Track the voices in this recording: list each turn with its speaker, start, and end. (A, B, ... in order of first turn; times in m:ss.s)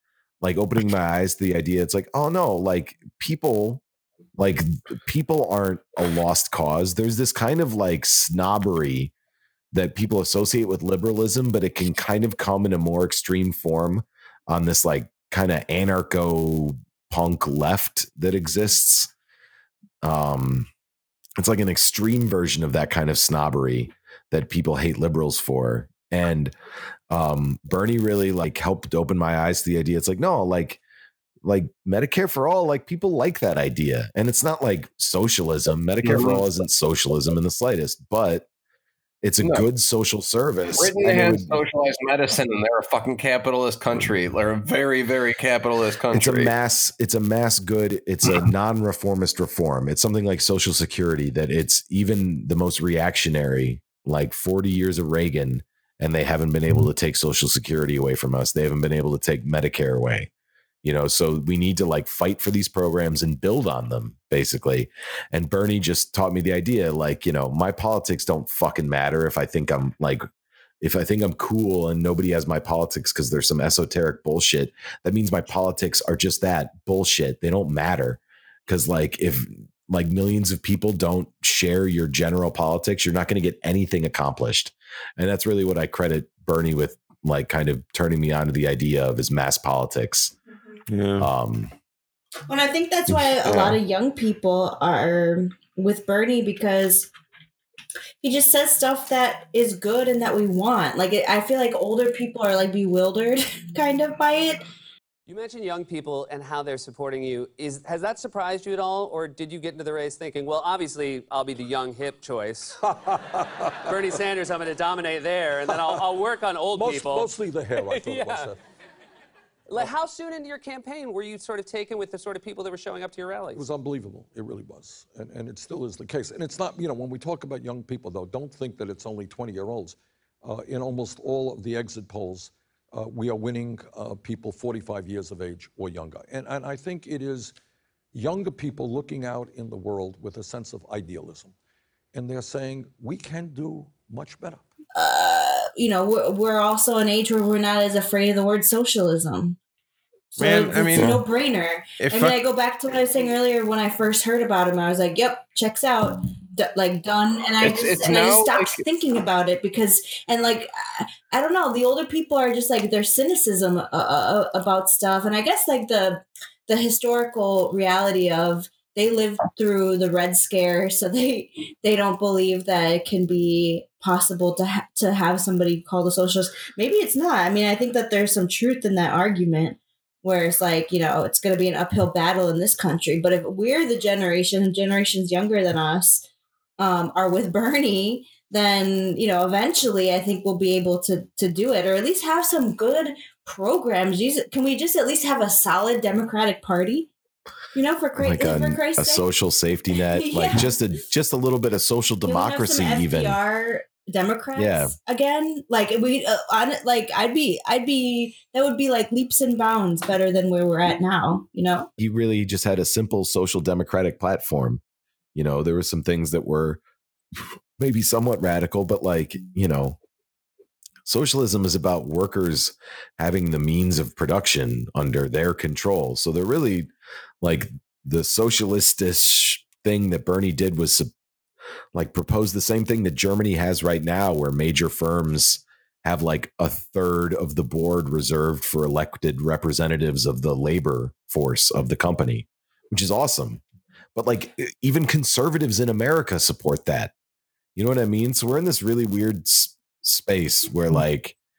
0:00.4-0:03.8 A
0:04.4-0:09.1 A
0:09.7-0:19.1 A
0:20.0-0:20.7 A
0:21.4-0:26.5 A
0:27.1-0:30.8 A
0:31.4-0:38.5 A
0:36.0-0:36.4 B
0:39.2-0:41.6 A
0:40.8-0:46.5 B
0:46.1-1:00.3 A
1:00.8-1:10.3 A
1:10.8-1:30.3 A
1:30.9-1:31.3 C
1:31.2-1:31.7 A
1:32.5-1:37.1 D
1:33.1-1:33.8 C
1:38.2-1:44.6 D
1:45.3-1:52.8 E
1:52.8-1:54.0 F
1:53.9-1:58.5 E
1:55.7-1:56.0 F
1:56.7-1:58.6 F
1:59.7-2:03.6 E
2:03.5-2:17.5 F
2:18.1-2:21.5 F
2:22.1-2:24.6 F
2:25.0-2:29.6 D
2:30.3-3:06.2 D
2:30.4-2:31.2 C
2:31.0-2:31.2 B
2:32.0-2:32.4 C
2:37.6-2:38.8 B
3:06.8-3:17.1 D
3:17.7-3:19.3 D
3:18.2-3:23.4 A
3:19.9-3:20.7 D
3:22.2-3:31.9 D
3:24.6-3:24.9 A
3:32.0-3:34.8 A
3:35.4-3:36.8 A
3:37.8-3:40.0 A
3:41.1-3:46.9 A
3:47.4-3:51.1 A
3:51.9-4:03.6 A
4:04.2-4:07.1 A
4:07.8-4:11.4 A